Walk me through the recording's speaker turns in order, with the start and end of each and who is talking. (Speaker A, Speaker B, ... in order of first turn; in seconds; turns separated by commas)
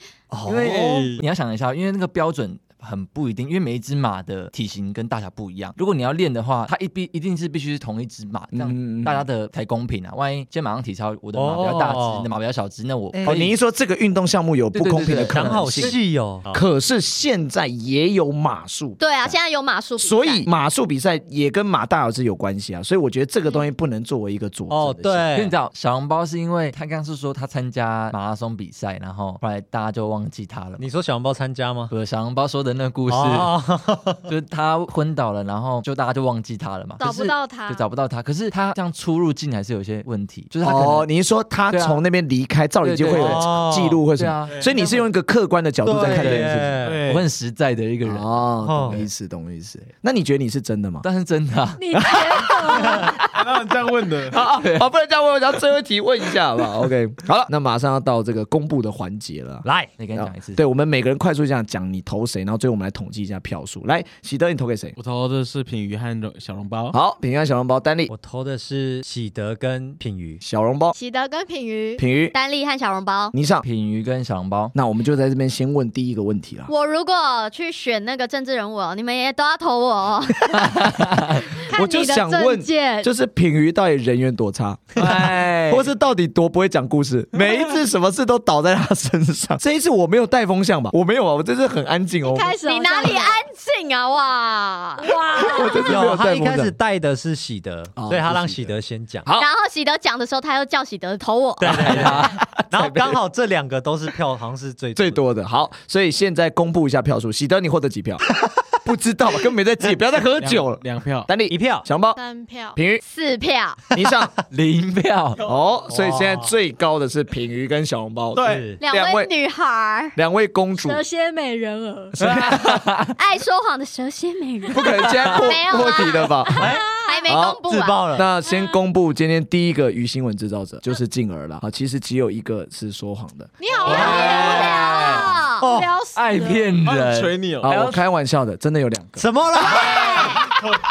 Speaker A: 0.3-1.2, Speaker B: 0.5-13.6, Speaker A: 8.5-9.2, Speaker C: 11.3-12.3, Speaker C: 13.1-13.4, Speaker A: 13.2-16.0, Speaker B: 14.7-16.0, Speaker C: 15.2-16.6, Speaker A: 16.5-19.4, Speaker D: 19.0-20.5, Speaker A: 20.0-25.2, Speaker C: 24.7-25.5, Speaker B: 25.3-30.8, Speaker C: 30.8-31.9, Speaker B: 31.9-33.5, Speaker C: 33.1-34.3, Speaker B: 34.3-41.1, Speaker E: 37.0-37.9, Speaker A: 40.6-46.8, Speaker B: 41.7-42.0, Speaker B: 42.8-43.5, Speaker C: 43.1-44.0, Speaker B: 44.1-45.1, Speaker C: 45.8-47.0, Speaker B: 46.0-49.1, Speaker F: 46.8-47.2, Speaker A: 48.0-51.1, Speaker C: 48.6-49.0, Speaker B: 51.0-52.2, Speaker E: 51.8-53.2, Speaker A: 51.9-53.1, Speaker F: 53.3-54.4, Speaker A: 54.3-64.9, Speaker B: 54.4-54.9, Speaker C: 59.6-59.9, Speaker B: 60.0-60.6, Speaker F: 65.0-67.0, Speaker A: 66.9-68.1, Speaker C: 68.1-70.4, Speaker A: 70.4-70.9, Speaker E: 70.9-72.0, Speaker A: 72.0-72.3, Speaker D: 72.3-73.3, Speaker A: 73.3-73.6, Speaker B: 73.6-74.7, Speaker A: 74.7-76.7, Speaker D: 76.7-80.8, Speaker B: 80.5-81.4, Speaker E: 81.5-83.1, Speaker A: 81.7-92.5, Speaker B: 85.0-85.9, Speaker E: 92.2-93.4, Speaker D: 92.6-95.1, Speaker E: 95.0-95.9, Speaker A: 95.3-96.7, Speaker C: 95.8-99.2, Speaker A: 98.0-98.7, Speaker D: 99.3-102.0, Speaker C: 101.6-105.2, Speaker B: 101.6-102.4, Speaker A: 101.8-103.2, Speaker A: 105.0-108.2, Speaker A: 108.8-112.2, Speaker F: 110.3-111.3, Speaker C: 111.5-111.9, Speaker E: 112.1-112.8, Speaker A: 112.7-113.0, Speaker D: 113.0-113.8, Speaker A: 113.9-114.3, Speaker B: 114.5-115.4, Speaker F: 115.4-115.9, Speaker A: 115.4-119.3, Speaker C: 115.9-116.5, Speaker F: 118.3-118.7, Speaker C: 118.4-118.8, Speaker D: 118.8-120.2, Speaker A: 120.1-121.0, Speaker E: 120.8-122.1, Speaker A: 122.1-122.9, Speaker B: 122.2-123.1, Speaker D: 123.2-128.2, Speaker A: 124.7-126.7, Speaker E: 126.5-127.2, Speaker C: 126.5-126.9, Speaker A: 127.3-127.6, Speaker C: 127.7-128.2, Speaker A: 128.1-134.3, Speaker E: 128.4-128.8, Speaker E: 133.6-135.1, Speaker D: 133.7-135.7, Speaker B: 133.9-135.4, Speaker C: 133.9-134.6, Speaker C: 135.6-135.9, Speaker E: 135.6-136.8, Speaker B: 136.1-138.0, Speaker F: 136.8-137.7, Speaker A: 137.6-139.3, Speaker C: 139.2-140.1, Speaker D: 139.6-140.6, Speaker E: 139.8-140.4